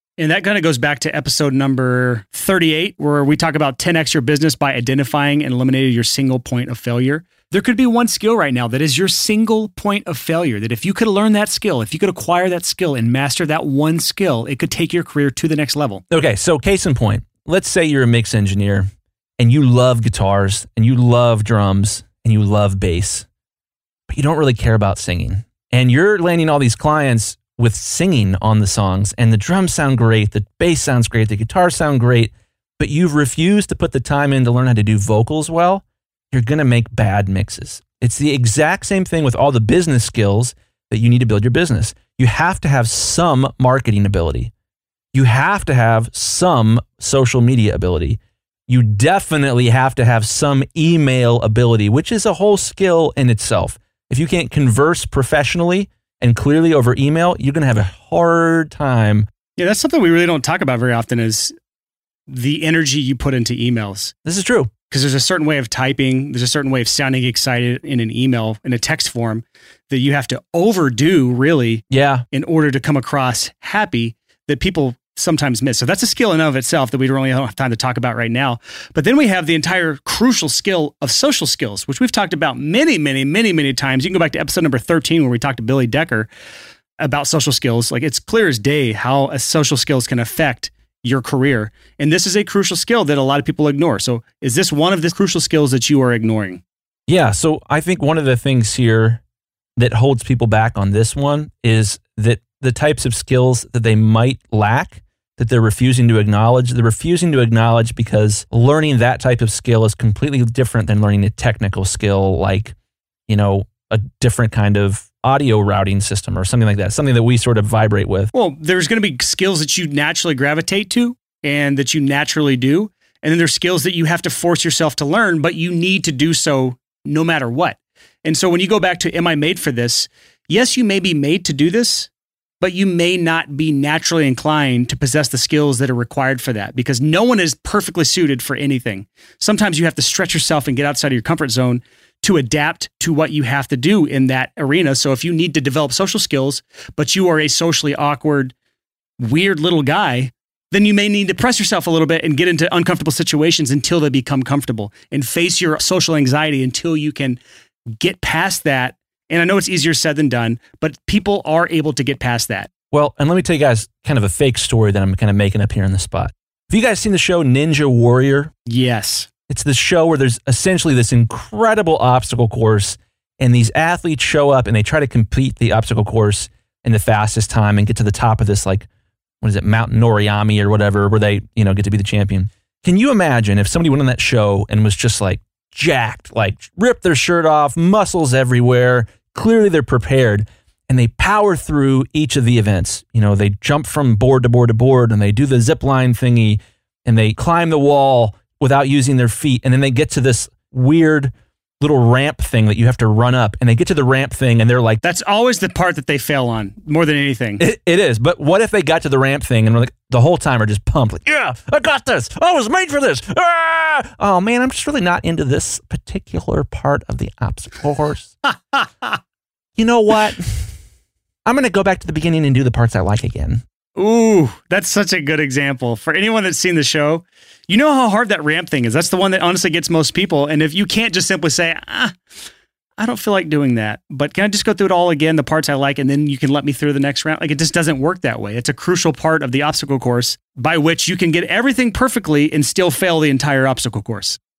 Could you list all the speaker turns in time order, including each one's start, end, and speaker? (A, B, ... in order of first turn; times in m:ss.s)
0:00.2-0:16.0 A
0:16.1-0:23.3 B
0:24.1-0:44.5 B
0:45.1-0:59.3 B
0:59.6-1:01.5 A
1:02.3-1:04.1 A
1:04.2-1:04.7 B
1:04.9-1:26.3 A
1:11.9-1:12.3 B
1:27.0-1:36.6 A
1:37.1-1:39.2 B
1:39.8-1:52.8 B
1:53.3-1:58.3 B
1:58.3-2:12.1 A
2:12.6-2:28.5 A
2:29.2-2:37.4 A
2:37.9-2:42.7 A
2:42.9-2:48.5 B
2:48.7-2:49.3 A
2:49.5-2:58.9 B
2:59.4-3:25.0 B
3:25.0-3:27.6 A
3:27.6-3:38.3 B
3:38.5-3:39.2 A
3:39.8-3:40.8 B
3:41.4-3:43.6 B
3:44.0-3:52.2 A
3:53.0-4:04.4 A